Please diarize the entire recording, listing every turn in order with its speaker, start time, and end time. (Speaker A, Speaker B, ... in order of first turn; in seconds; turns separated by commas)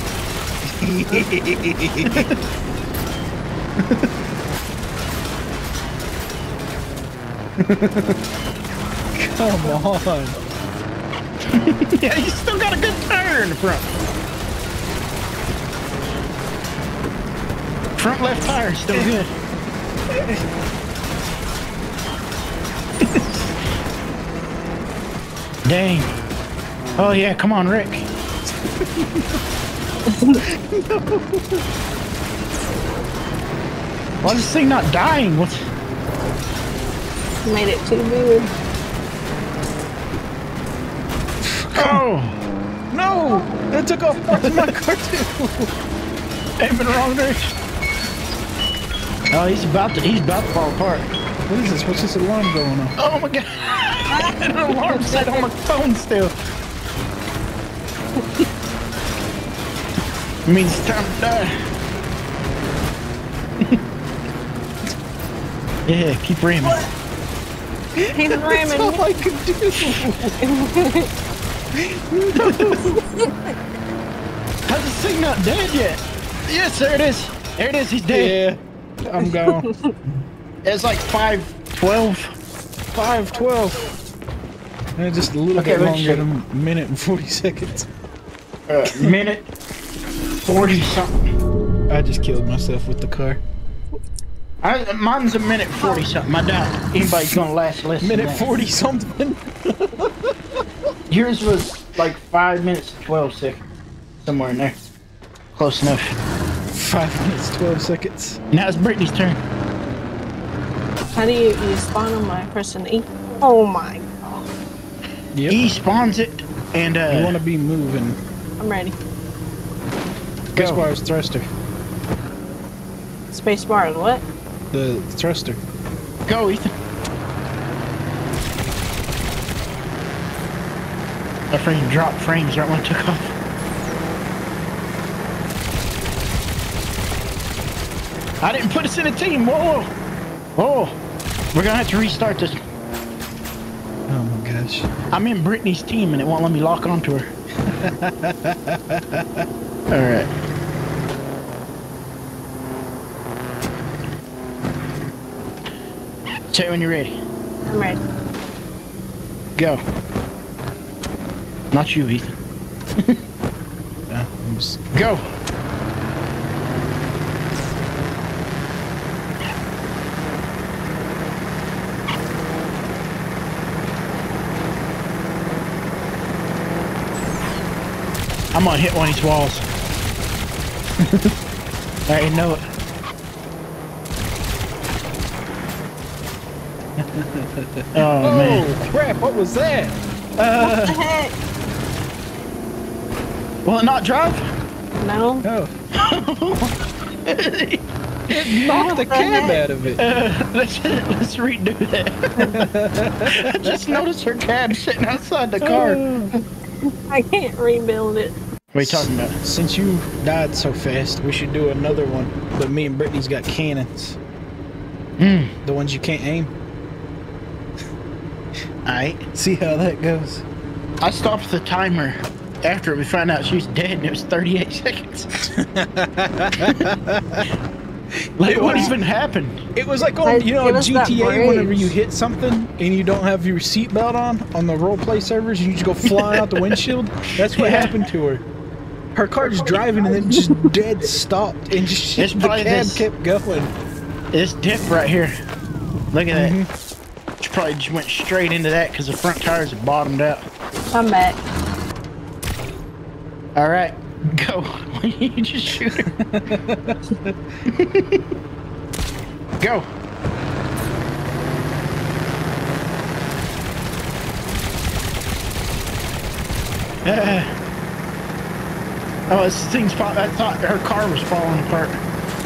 Speaker A: 0.7-2.3, Speaker A: 9.1-10.4, Speaker B: 11.4-13.9, Speaker B: 18.0-19.3, Speaker A: 20.1-20.4, Speaker B: 25.6-26.1, Speaker B: 27.0-28.1, Speaker A: 28.6-29.4, Speaker C: 30.1-30.4, Speaker A: 30.7-31.6, Speaker B: 34.2-35.6, Speaker C: 37.4-38.5, Speaker A: 41.4-42.0, Speaker B: 41.8-42.4, Speaker A: 42.9-45.7, Speaker C: 43.2-43.6, Speaker B: 44.3-44.7, Speaker B: 46.6-47.5, Speaker B: 49.3-51.1, Speaker A: 51.5-52.9, Speaker B: 53.0-56.3, Speaker C: 54.1-55.4, Speaker B: 60.5-61.6, Speaker B: 65.9-66.8, Speaker A: 68.0-70.3, Speaker C: 68.1-69.0, Speaker C: 69.8-71.1, Speaker A: 71.7-72.9, Speaker B: 72.4-72.8, Speaker C: 72.9-73.5, Speaker B: 74.7-78.4, Speaker A: 78.1-79.7, Speaker C: 79.3-79.9, Speaker B: 80.6-82.4, Speaker A: 82.9-83.9, Speaker A: 85.0-87.9, Speaker B: 85.5-86.2, Speaker B: 88.7-89.5, Speaker A: 88.9-89.2, Speaker B: 90.4-91.2, Speaker A: 91.9-93.4, Speaker B: 94.6-98.5, Speaker A: 97.0-97.4, Speaker A: 98.0-100.6, Speaker B: 101.1-103.6, Speaker B: 104.2-104.8, Speaker B: 105.5-106.2, Speaker A: 106.7-108.4, Speaker B: 108.5-109.4, Speaker C: 111.1-114.5, Speaker A: 115.3-115.6, Speaker B: 115.5-117.4, Speaker A: 117.1-118.2, Speaker C: 118.6-118.9, Speaker A: 120.5-121.5, Speaker B: 120.6-120.8, Speaker C: 123.3-124.2, Speaker A: 124.7-125.6, Speaker B: 126.3-126.7, Speaker B: 131.5-133.3, Speaker B: 138.4-139.9, Speaker B: 140.6-141.0, Speaker B: 141.5-142.6, Speaker A: 144.1-144.9, Speaker B: 145.1-147.3, Speaker A: 147.7-149.4, Speaker B: 149.9-150.3, Speaker B: 156.5-157.2, Speaker C: 157.7-158.0, Speaker B: 161.7-162.4, Speaker A: 164.1-164.8, Speaker B: 164.9-165.2, Speaker B: 178.5-179.7, Speaker B: 182.1-182.6, Speaker A: 187.0-190.0, Speaker B: 187.9-188.7, Speaker B: 190.4-191.0, Speaker C: 190.6-191.3, Speaker B: 193.7-194.4, Speaker C: 195.0-195.4, Speaker A: 195.4-195.7, Speaker B: 195.9-198.7, Speaker A: 198.3-200.0, Speaker C: 198.7-199.6, Speaker B: 200.0-202.7, Speaker A: 202.4-204.0, Speaker B: 203.3-206.0, Speaker A: 205.6-206.3, Speaker C: 206.8-208.3, Speaker B: 208.7-209.3, Speaker A: 208.8-214.2, Speaker B: 215.2-215.5, Speaker A: 215.6-216.5, Speaker B: 218.8-219.2, Speaker A: 219.3-220.4, Speaker B: 221.0-225.3, Speaker A: 225.5-227.5, Speaker B: 228.4-229.6, Speaker A: 228.4-228.9, Speaker C: 228.6-228.9, Speaker A: 229.7-238.4, Speaker C: 230.2-231.9, Speaker B: 236.1-236.8, Speaker B: 237.4-237.9, Speaker A: 239.2-243.7, Speaker C: 240.3-240.7, Speaker B: 242.2-243.1, Speaker B: 244.3-245.3, Speaker B: 246.1-246.6, Speaker A: 246.3-246.7, Speaker B: 247.4-250.5, Speaker C: 250.9-251.4, Speaker B: 253.6-256.1, Speaker A: 256.2-257.4, Speaker B: 257.7-258.2, Speaker B: 259.6-259.9, Speaker B: 267.1-267.5, Speaker B: 269.3-272.0